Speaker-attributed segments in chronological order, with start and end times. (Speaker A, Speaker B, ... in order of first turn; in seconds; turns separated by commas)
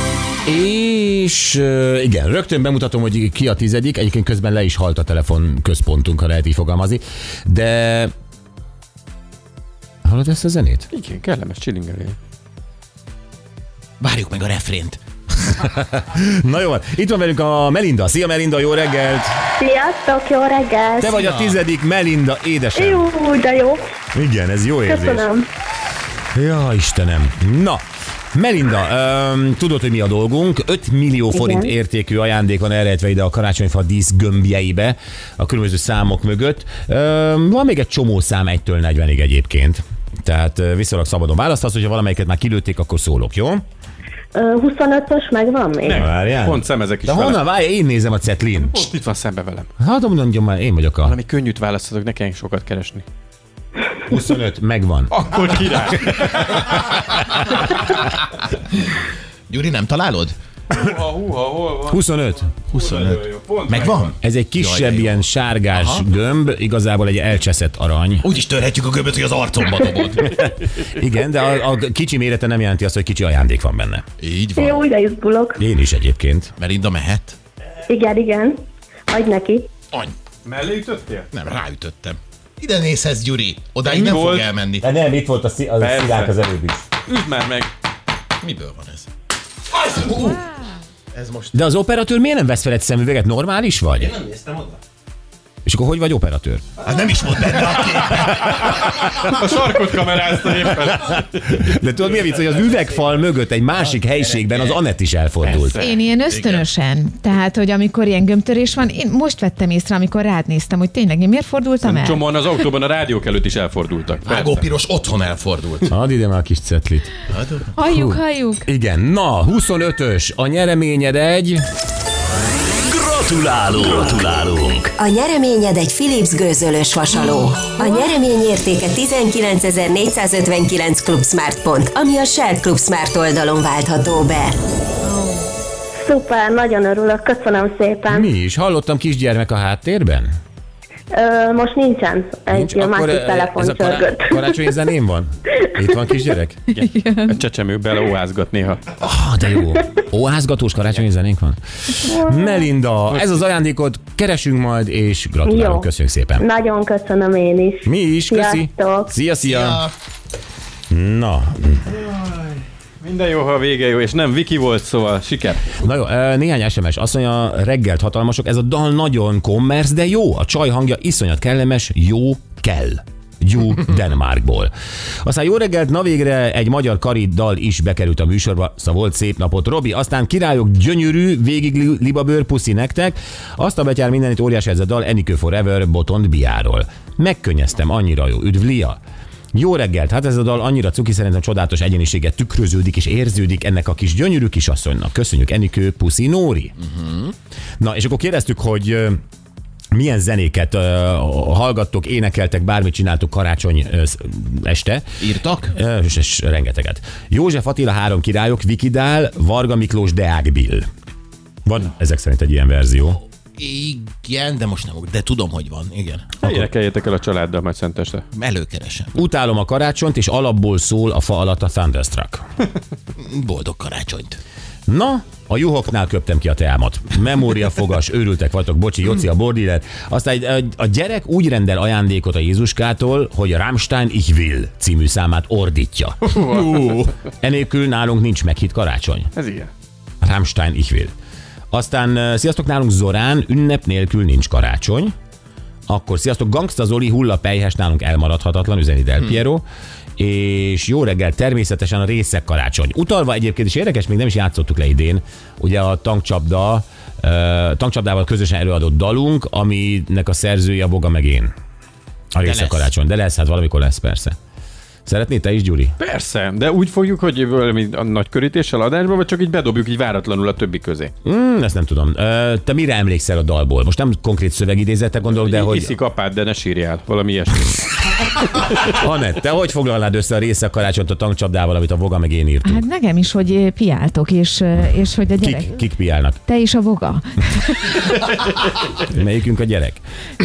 Speaker A: 0.4-8.1, Speaker A: 10.0-10.8, Speaker B: 10.9-12.2, Speaker C: 14.0-15.6, Speaker A: 15.6-19.3, Speaker D: 19.6-21.2, Speaker A: 21.0-23.1, Speaker C: 21.1-21.6, Speaker D: 22.8-23.8, Speaker A: 24.1-25.3, Speaker D: 24.9-25.4, Speaker A: 26.3-27.8, Speaker A: 28.3-43.6, Speaker D: 31.3-31.7, Speaker D: 44.3-46.0, Speaker B: 45.9-47.4, Speaker A: 45.9-48.9, Speaker B: 48.6-49.7, Speaker A: 49.8-51.1, Speaker B: 51.0-53.0, Speaker A: 54.0-55.1, Speaker B: 55.1-56.8, Speaker C: 59.5-60.3, Speaker B: 60.7-64.1, Speaker A: 61.9-62.5, Speaker C: 62.7-66.0, Speaker A: 64.2-68.3, Speaker C: 68.2-70.3, Speaker A: 70.1-74.0, Speaker B: 70.4-70.8, Speaker C: 74.2-74.8, Speaker D: 74.5-75.6, Speaker A: 75.6-76.5, Speaker C: 76.6-77.3, Speaker D: 77.9-79.7, Speaker B: 80.4-81.3, Speaker C: 81.3-84.9, Speaker B: 83.8-84.5, Speaker A: 84.8-86.9, Speaker B: 85.8-86.3, Speaker B: 87.1-87.7, Speaker C: 88.4-89.1, Speaker C: 89.8-90.4, Speaker C: 91.1-91.6, Speaker A: 91.5-94.1, Speaker C: 94.0-94.8, Speaker A: 95.7-96.6, Speaker C: 96.8-98.8, Speaker B: 98.3-101.6, Speaker A: 100.9-105.8, Speaker B: 105.4-106.0, Speaker E: 105.8-112.2, Speaker C: 106.3-106.7, Speaker B: 111.8-114.7, Speaker C: 114.2-115.9, Speaker A: 115.9-117.1, Speaker C: 117.3-117.7, Speaker E: 117.8-118.7, Speaker A: 117.8-121.6, Speaker F: 122.8-124.9, Speaker G: 125.0-134.5, Speaker E: 135.1-135.4, Speaker D: 136.0-138.3, Speaker A: 138.1-140.3, Speaker D: 141.1-144.4, Speaker A: 142.5-146.6, Speaker B: 146.7-148.8, Speaker E: 146.9-147.3, Speaker A: 149.0-156.4, Speaker D: 152.1-152.6, Speaker B: 153.1-153.4, Speaker D: 155.4-159.1, Speaker A: 157.8-159.8, Speaker C: 159.4-159.9, Speaker A: 160.9-162.0, Speaker B: 163.0-165.7, Speaker A: 165.8-174.7, Speaker A: 175.2-189.0, Speaker A: 189.5-196.8, Speaker C: 196.9-197.3, Speaker A: 197.8-199.2, Speaker A: 199.9-210.9, Speaker C: 205.2-205.7, Speaker A: 211.7-213.2, Speaker C: 213.6-216.3, Speaker B: 216.4-218.2, Speaker A: 216.4-216.7, Speaker C: 218.3-219.2, Speaker A: 219.1-222.4, Speaker C: 223.2-224.4, Speaker A: 224.9-236.2, Speaker B: 236.2-237.1, Speaker A: 237.4-239.3, Speaker B: 239.3-239.7, Speaker A: 240.2-241.1, Speaker A: 241.7-245.1, Speaker A: 245.9-249.6, Speaker A: 250.2-261.5, Speaker A: 262.3-264.4, Speaker C: 262.4-262.9, Speaker A: 265.1-265.9, Speaker B: 266.0-271.1, Speaker A: 271.2-275.9, Speaker B: 275.3-278.9, Speaker A: 278.8-282.8, Speaker E: 282.6-285.8, Speaker A: 285.4-286.4, Speaker E: 286.4-288.0, Speaker A: 289.1-290.0